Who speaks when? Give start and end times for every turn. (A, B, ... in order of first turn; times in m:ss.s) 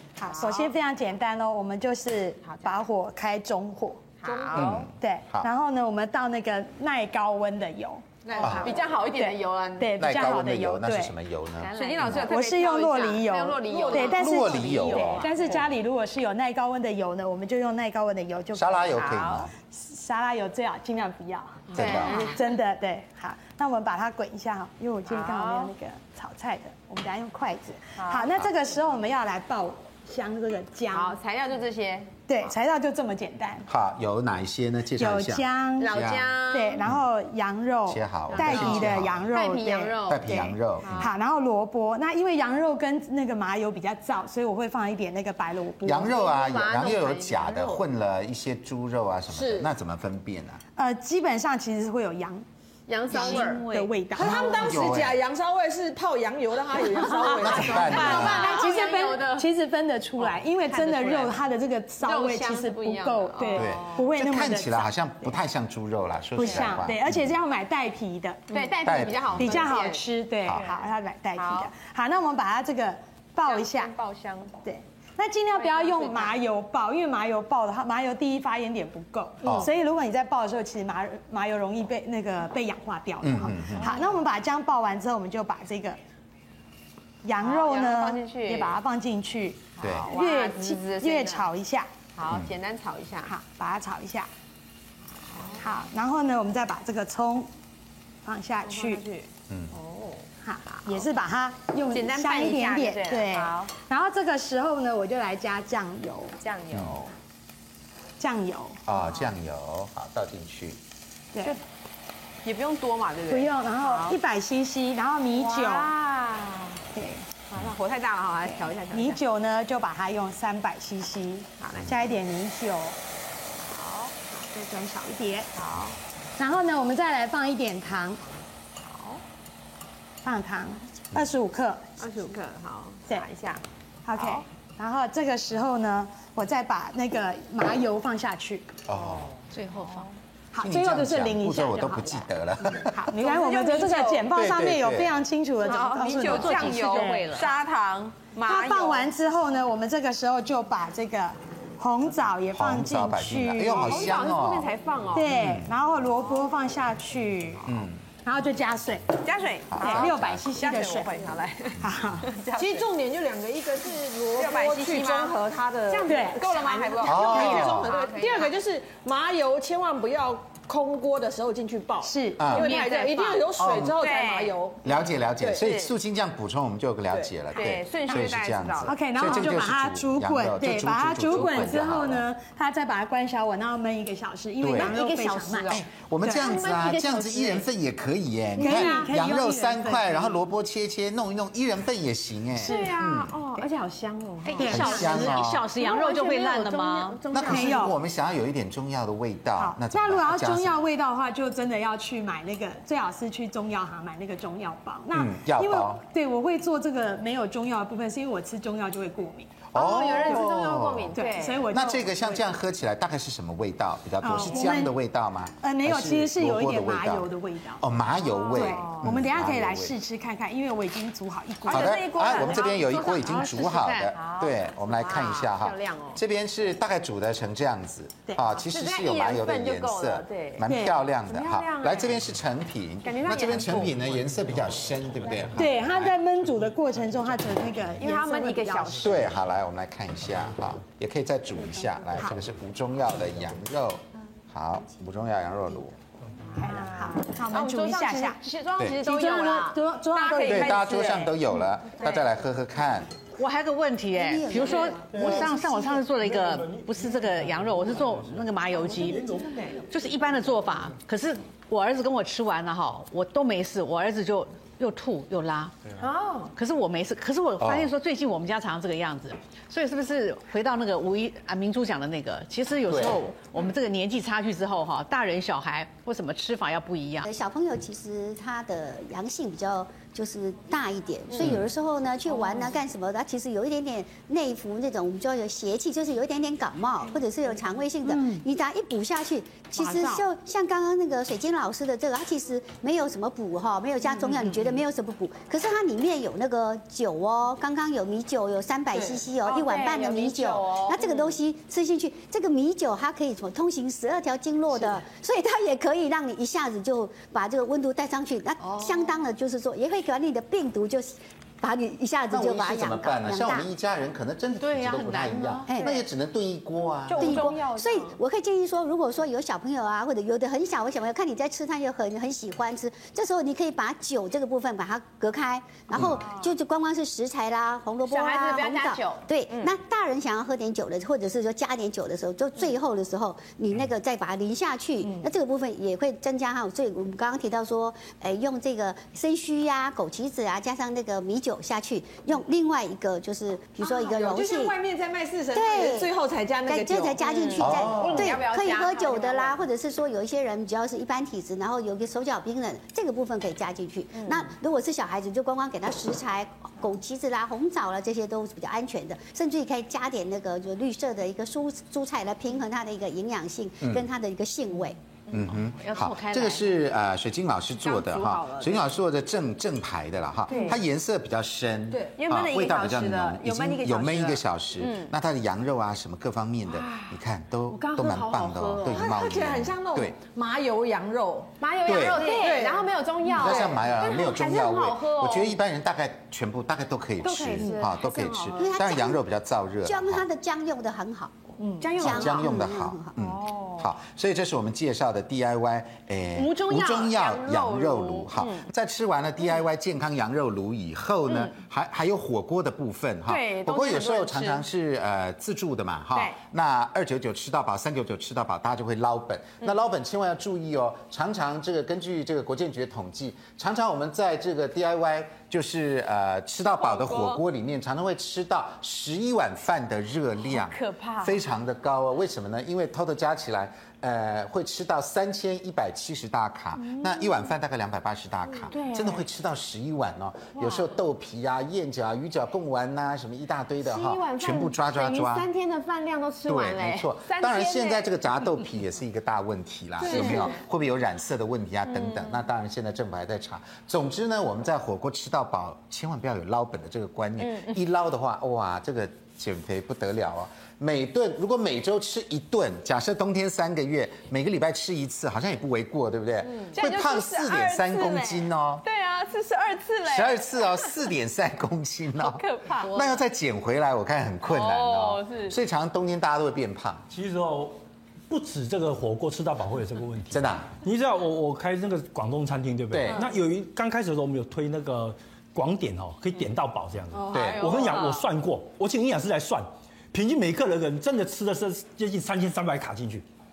0:00.2-0:11.1 A
0:00.2-0:00.7 B
0:02.4-0:02.8 B
0:04.2-0:04.9 B
0:04.5-0:05.5 C
0:08.2-0:10.0 B
0:08.4-0:08.8 C
0:10.0-0:12.3 C
0:11.6-0:15.7 B
0:12.0-0:19.0 A
0:14.1-0:15.3 C
0:18.5-0:19.5 C
0:18.9-0:19.5 B
0:19.6-0:31.2 A
0:21.7-0:22.4 B
0:21.7-0:22.2 C
0:25.1-0:25.7 B
0:28.0-0:28.4 B
0:30.9-0:32.2 B
0:32.3-0:33.6 A
0:33.7-0:37.0 C
0:34.9-0:46.2 A
0:35.8-0:36.8 B
0:37.9-0:39.3 C
0:38.3-0:40.3 B
0:40.0-0:41.1 C
0:40.8-0:41.1 B
0:45.8-0:50.6 C
0:46.1-0:47.8 B
0:50.8-0:52.4 A
0:52.9-0:54.6 B
0:53.1-0:54.6 A
0:54.1-0:58.1 D
0:54.2-0:55.2 C
0:57.0-1:05.3 A
0:57.0-0:59.5 B
0:57.4-0:58.6 C
1:00.2-1:01.4 B
1:02.0-1:04.1 B
1:03.5-1:07.2 C
1:06.4-1:13.9 A
1:06.4-1:06.8 B
1:08.5-1:10.0 B
1:08.8-1:09.7 C
1:10.6-1:11.7 B
1:13.4-1:14.6 B
1:14.6-1:26.0 A
1:15.6-1:16.4 B
1:19.4-1:19.7 C
1:23.2-1:23.9 C
1:23.8-1:24.2 B
1:27.2-1:31.9 A
1:27.4-1:28.8 B
1:29.8-1:31.5 B
1:29.8-1:30.1 C
1:32.1-1:33.3 B
1:32.2-1:32.5 C
1:33.2-1:34.3 A
1:35.3-1:35.8 B
1:35.6-1:37.5 A
1:38.2-1:39.0 A
1:38.6-1:41.1 B
1:39.5-1:39.7 C
1:40.4-1:46.4 A
1:41.9-1:43.7 B
1:46.4-1:47.1 B
1:46.7-1:47.0 C
1:48.2-1:48.8 A
1:48.9-1:50.8 C
1:48.9-1:49.3 B
1:51.3-1:51.6 A
1:52.4-1:54.2 B
1:53.3-1:55.9 A
1:55.3-1:56.8 B
1:56.9-1:57.2 A
1:57.5-1:59.2 B
1:58.5-2:03.0 A
2:01.6-2:02.0 B
2:03.6-2:04.4 B
2:04.4-2:05.5 A
2:05.5-2:06.0 B
2:06.4-2:08.2 A
2:08.8-2:09.2 B
2:10.2-2:12.2 A
2:12.0-2:13.6 B
2:14.0-2:18.8 A
2:14.2-2:14.4 B
2:18.9-2:19.3 C
2:19.0-2:19.3 B
2:19.5-2:20.1 E
2:19.8-2:20.1 B
2:20.5-2:22.3 A
2:20.6-2:23.0 C
2:22.9-2:27.4 A
2:23.1-2:24.3 B
2:24.3-2:25.2 C
2:25.6-2:29.1 B
2:26.2-2:27.5 E
2:28.4-2:34.2 A
2:32.5-2:34.7 C
2:33.7-2:35.5 B
2:35.1-2:39.2 A
2:35.3-2:35.7 C
2:37.6-2:38.0 C
2:39.2-2:42.9 B
2:39.7-2:40.6 C
2:39.8-2:42.4 A
2:42.5-2:54.8 D
2:44.4-2:48.5 B
2:46.0-2:47.4 A
2:47.0-2:47.9 C
2:52.0-2:52.6 A
2:52.4-2:52.7 C
2:52.5-2:54.6 B
2:53.6-2:54.0 C
2:54.8-3:02.3 C
2:55.5-2:55.9 B
2:57.5-2:59.5 B
2:58.8-3:05.8 A
3:04.6-3:05.0 C
3:04.8-3:07.6 B
3:05.7-3:13.3 C
3:08.6-3:10.4 A
3:08.6-3:09.1 B
3:12.6-3:13.0 A
3:12.6-3:17.9 B
3:14.4-3:17.2 E
3:14.6-3:15.4 A
3:14.7-3:15.7 C
3:17.3-3:20.8 C
3:17.4-3:18.0 A
3:19.6-3:30.5 A
3:25.1-3:26.0 C
3:29.7-3:31.2 C
3:29.7-3:31.7 B
3:31.1-3:32.5 A
3:31.7-3:40.0 C
3:34.2-3:34.9 A
3:34.4-3:34.8 B
3:35.6-3:37.8 A
3:38.3-3:42.5 A
3:38.5-3:39.1 B
3:41.6-3:46.2 B
3:41.7-3:56.2 C
3:43.0-3:44.1 E
3:48.5-3:50.7 B
3:50.6-3:51.0 A
3:51.2-3:52.2 B
3:53.0-3:54.0 B
3:55.5-3:59.2 A
3:58.0-3:59.3 B
3:59.0-4:05.9 C
4:06.5-4:08.4 A
4:06.6-4:11.4 B
4:09.0-4:11.2 A
4:10.5-4:13.1 C
4:13.4-4:19.3 E
4:14.2-4:15.6 F
4:15.1-4:19.8 G
4:19.4-4:19.8 B
4:19.8-4:25.7 E
4:26.0-4:26.5 B
4:26.5-4:37.2 E
4:27.6-4:27.9 C
4:32.9-4:33.2 C
4:37.2-5:13.7 F
4:48.0-4:48.4 A
4:49.7-4:50.2 A
4:58.9-5:01.4 B
5:08.6-5:09.0 E
5:12.3-5:17.4 C
5:14.6-5:15.7 E
5:15.8-5:16.0 B
5:17.1-5:18.2 B
5:17.2-5:44.7 F
5:25.9-5:26.2 C
5:26.0-5:26.5 B
5:28.0-5:29.7 B
5:43.8-5:49.6 B
5:45.5-5:46.1 F
5:46.6-6:05.0 F
5:47.6-5:48.4 C
5:54.1-5:54.5 B
6:03.8-6:04.1 C
6:05.3-6:20.2 C
6:05.7-6:06.7 E
6:07.8-6:08.9 B
6:10.5-6:10.8 B
6:10.5-6:10.8 D
6:12.1-6:15.1 B
6:16.7-6:19.1 B
6:18.8-6:21.5 D
6:21.6-6:25.6 B
6:21.8-6:22.4 C
6:22.1-6:23.8 D
6:23.2-6:30.2 C
6:27.2-6:28.8 B
6:28.6-6:29.2 F
6:29.8-6:31.3 F
6:31.6-6:32.1 D
6:31.8-6:32.5 B
6:32.0-6:33.1 F
6:32.0-7:15.5 C
6:33.2-6:33.9 B
6:36.4-6:38.7 B
6:41.2-6:41.5 B
6:43.3-6:44.6 B
6:56.6-6:57.4 B
7:00.4-7:01.4 B
7:06.8-7:07.5 B
7:08.6-7:09.2 B
7:10.5-7:10.9 B
7:13.8-7:18.2 B
7:16.4-7:38.8 C
7:20.0-7:20.6 B
7:21.9-7:22.4 B
7:27.4-7:27.8 B
7:36.4-7:41.0 B
7:40.0-7:47.0 C
7:42.2-7:43.2 B
7:44.4-7:45.6 B
7:47.1-7:47.8 G
7:48.3-8:03.2 G
7:50.3-7:50.7 C
7:52.9-7:53.3 C
7:57.1-7:58.3 B
7:57.3-7:57.8 C